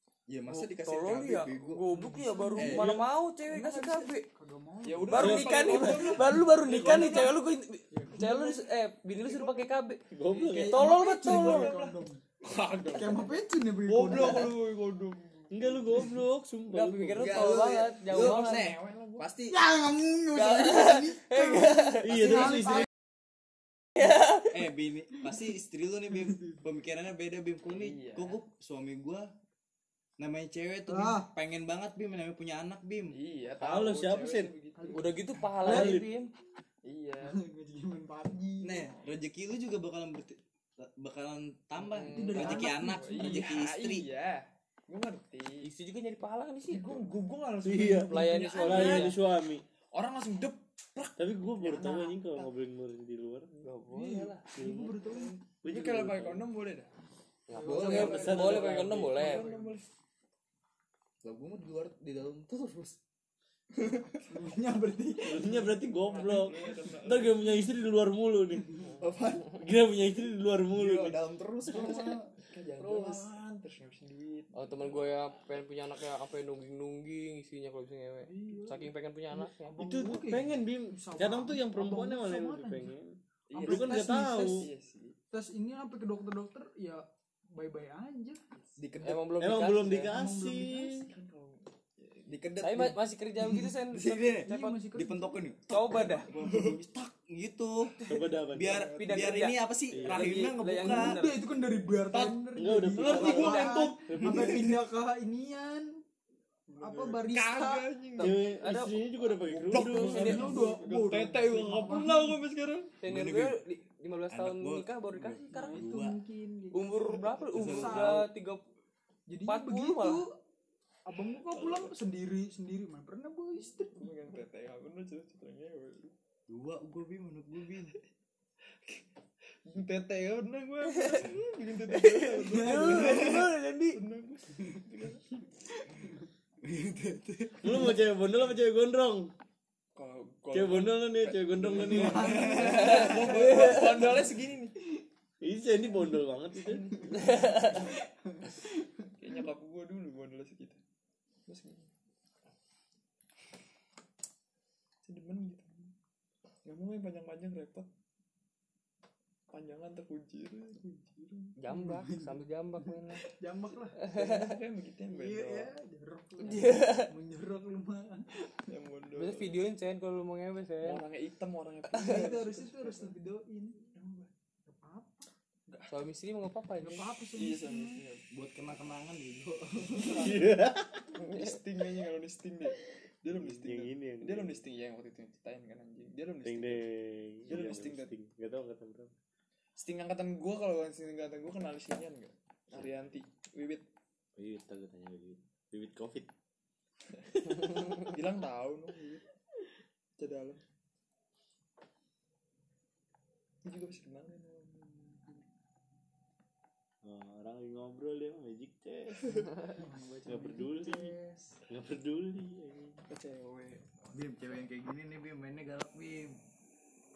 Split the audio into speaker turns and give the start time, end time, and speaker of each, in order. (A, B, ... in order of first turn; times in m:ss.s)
0:00.3-0:01.8 A
0:00.5-0:04.3 B
0:01.9-0:05.9 C
0:02.6-0:03.0 A
0:04.8-0:07.4 D
0:05.1-0:11.7 B
0:05.2-0:06.1 E
0:06.7-0:07.1 E
0:07.9-0:08.7 C
0:09.2-0:09.6 D
0:10.1-0:10.9 E
0:10.4-0:12.2 C
0:11.2-0:13.3 D
0:12.9-0:14.6 C
0:13.8-0:15.6 D
0:15.5-0:17.5 E
0:16.7-0:18.8 B
0:17.2-0:19.6 A
0:18.1-0:19.3 D
0:19.5-0:22.9 C
0:20.4-0:22.0 B
0:22.0-0:22.9 E
0:24.5-0:29.3 A
0:27.7-0:28.4 D
0:30.2-0:33.2 A
0:30.9-0:31.3 C
0:33.1-0:35.1 D
0:33.6-0:34.5 E
0:34.8-0:36.0 C
0:34.9-0:36.3 B
0:35.6-0:36.1 E
0:36.8-0:37.4 D
0:37.3-0:38.9 C
0:38.6-0:44.0 A
0:41.8-0:45.7 D
0:42.1-0:43.5 C
0:45.6-0:47.0 B
0:46.7-0:49.2 D
0:47.6-0:49.6 E
0:48.0-0:49.2 B
0:49.9-0:52.5 D
0:51.2-0:53.5 E
0:53.6-0:54.5 B
0:53.9-0:55.4 C
0:54.6-0:55.0 E
0:55.6-0:56.5 E
0:55.7-0:56.9 D
0:57.5-0:59.5 B
0:57.5-0:59.8 C
0:57.6-0:58.8 A
0:57.9-0:59.2 E
0:58.2-0:59.8 D
1:01.2-1:03.0 A
1:03.8-1:04.3 A
1:04.3-1:05.8 C
1:05.2-1:08.8 E
1:05.8-1:07.6 D
1:08.8-1:09.2 D
1:09.0-1:09.6 A
1:09.5-1:11.2 E
1:10.7-1:12.2 A
1:11.7-1:12.3 C
1:11.7-1:15.6 D
1:12.8-1:13.3 B
1:14.6-1:19.8 B
1:18.3-1:22.9 C
1:19.7-1:24.7 E
1:23.5-1:25.2 D
1:23.5-1:24.6 C
1:25.3-1:28.4 C
1:28.8-1:29.3 A
1:29.0-1:30.1 B
1:29.4-1:31.1 E
1:29.9-1:31.1 C
1:31.0-1:32.2 D
1:32.3-1:37.9 A
1:32.6-1:34.8 B
1:34.5-1:35.4 C
1:35.7-1:36.3 B
1:38.0-1:39.1 C
1:38.1-1:38.8 E
1:38.5-1:41.2 A
1:38.7-1:39.4 D
1:38.8-1:41.4 B
1:39.9-1:40.4 E
1:40.8-1:46.0 C
1:42.6-1:44.7 E
1:43.0-1:44.0 B
1:44.3-1:44.7 A
1:46.7-1:48.4 D
1:46.8-1:47.9 C
1:48.2-1:50.6 B
1:48.2-1:50.5 E
1:49.5-1:52.9 D
1:50.1-1:52.4 C
1:53.0-1:55.9 B
1:53.0-1:53.6 A
1:54.3-1:56.2 A
1:55.5-1:58.3 C
1:56.7-1:58.6 B
1:57.5-1:58.3 A
1:59.3-2:00.4 C
1:59.5-2:00.3 B
2:01.1-2:04.4 C
2:01.4-2:02.0 D
2:03.7-2:06.1 D
2:06.5-2:08.0 A
2:09.7-2:15.2 D
2:12.4-2:13.5 C
2:12.5-2:13.7 E
2:12.7-2:14.0 B
2:16.6-2:17.9 A
2:17.6-2:19.3 E
2:20.0-2:24.8 D
2:20.5-2:22.9 E
2:21.9-2:24.3 C
2:22.1-2:22.8 A
2:22.5-2:24.1 B
2:25.4-2:27.0 E
2:26.5-2:27.8 D
2:27.2-2:27.7 B
2:27.6-2:29.1 C
2:29.2-2:30.8 D
2:31.5-2:31.9 D
2:35.0-2:35.9 D
2:36.7-2:37.9 D
2:39.5-2:41.6 D
2:41.6-2:43.3 B
2:41.7-2:44.0 C
2:44.1-2:44.4 B
2:44.1-2:45.7 D
2:45.1-2:48.6 C
2:46.4-2:47.0 D
2:46.4-2:47.1 B
2:48.7-2:49.6 D
2:49.2-2:51.0 B
2:50.8-2:53.2 D
2:51.9-2:53.8 C
2:53.9-2:54.3 D
2:54.7-2:55.3 C
2:55.9-2:57.1 B
2:56.8-2:58.0 C
2:57.3-2:58.2 D
2:58.3-3:00.4 A
3:00.0-3:01.2 E
3:00.1-3:00.4 D
3:01.2-3:06.8 D
3:03.3-3:04.6 E
3:06.4-3:09.1 E
3:07.5-3:08.1 D
3:09.8-3:13.8 D
3:14.4-3:16.3 E
3:17.2-3:19.2 D
3:20.2-3:20.6 D
3:23.6-3:25.4 D
3:27.0-3:29.3 E
3:29.2-3:29.5 D
3:29.6-3:31.4 C
3:30.3-3:31.1 E
3:31.7-3:33.0 E
3:33.1-3:33.9 D
3:34.1-3:36.4 A